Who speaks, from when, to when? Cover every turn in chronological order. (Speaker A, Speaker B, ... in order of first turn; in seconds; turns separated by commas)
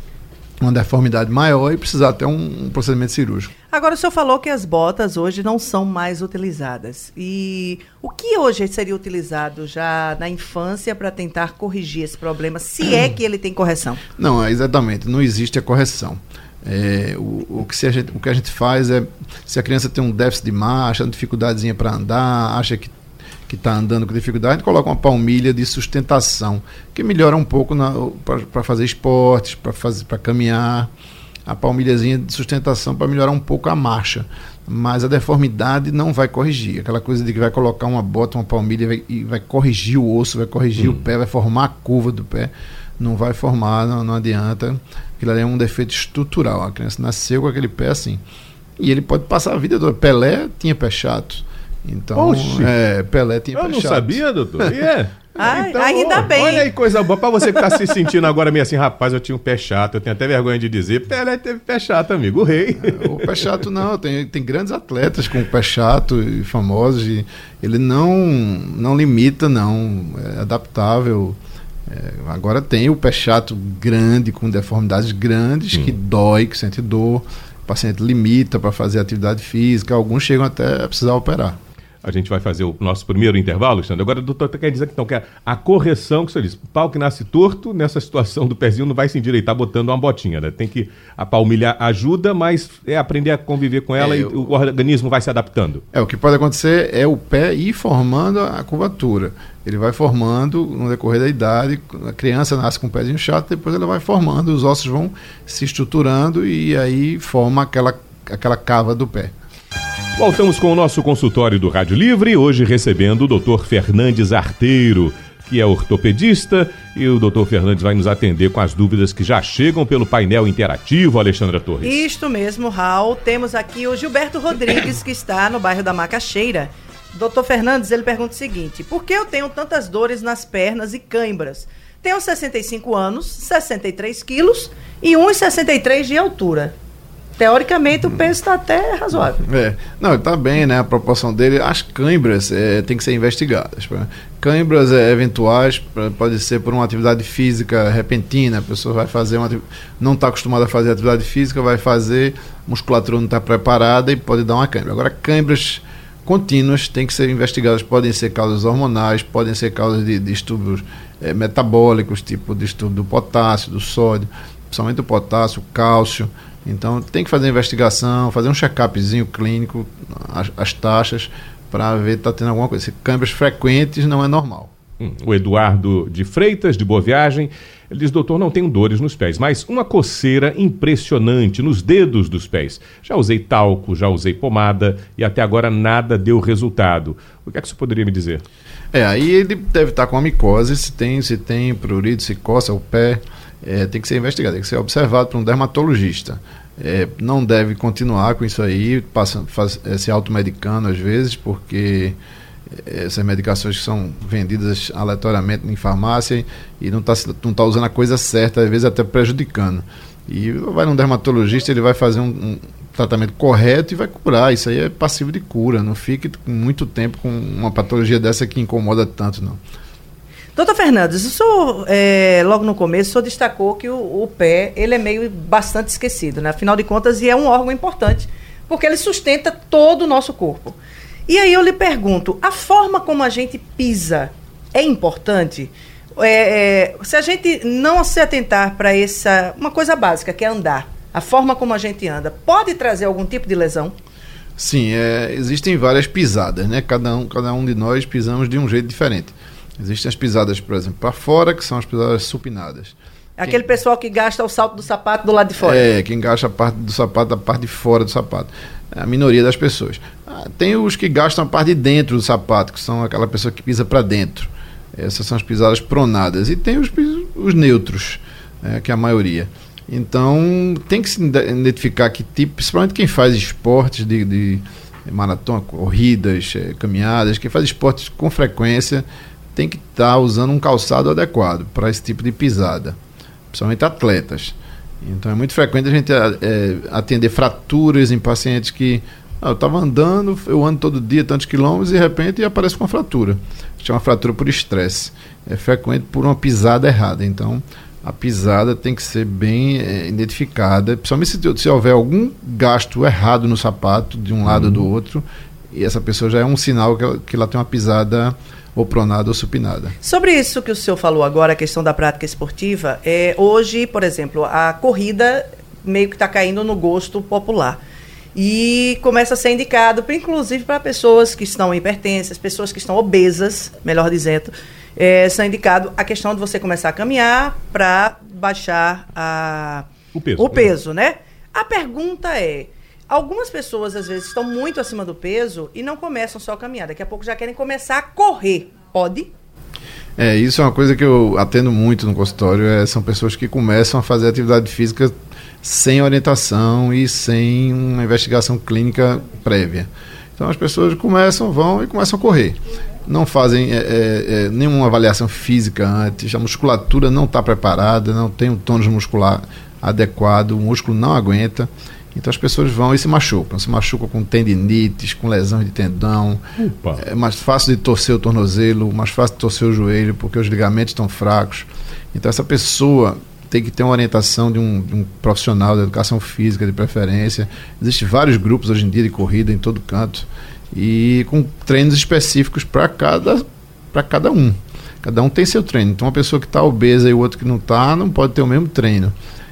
Speaker A: 0.6-3.5, Speaker B: 3.7-14.0, Speaker A: 14.2-22.9, Speaker A: 23.5-30.9, Speaker A: 31.5-48.2, Speaker A: 48.8-54.8, Speaker C: 52.1-52.7, Speaker C: 53.5-63.6, Speaker B: 55.4-56.7, Speaker A: 62.8-81.6, Speaker C: 82.0-95.8, Speaker A: 94.0-94.5, Speaker A: 95.9-109.3, Speaker C: 110.2-122.0, Speaker B: 121.8-136.7, Speaker B: 137.4-139.4, Speaker A: 139.4-174.7, Speaker C: 175.0-188.4, Speaker A: 188.9-202.2, Speaker A: 202.7-219.6, Speaker B: 220.6-244.0, Speaker A: 244.6-253.6, Speaker B: 253.4-255.9, Speaker A: 255.6-283.0, Speaker A: 283.5-310.0, Speaker C: 304.5-304.9, Speaker B: 310.0-317.8, Speaker B: 318.4-339.3, Speaker C: 330.1-330.7, Speaker A: 340.2-366.4, Speaker C: 366.6-367.0, Speaker A: 367.0-389.2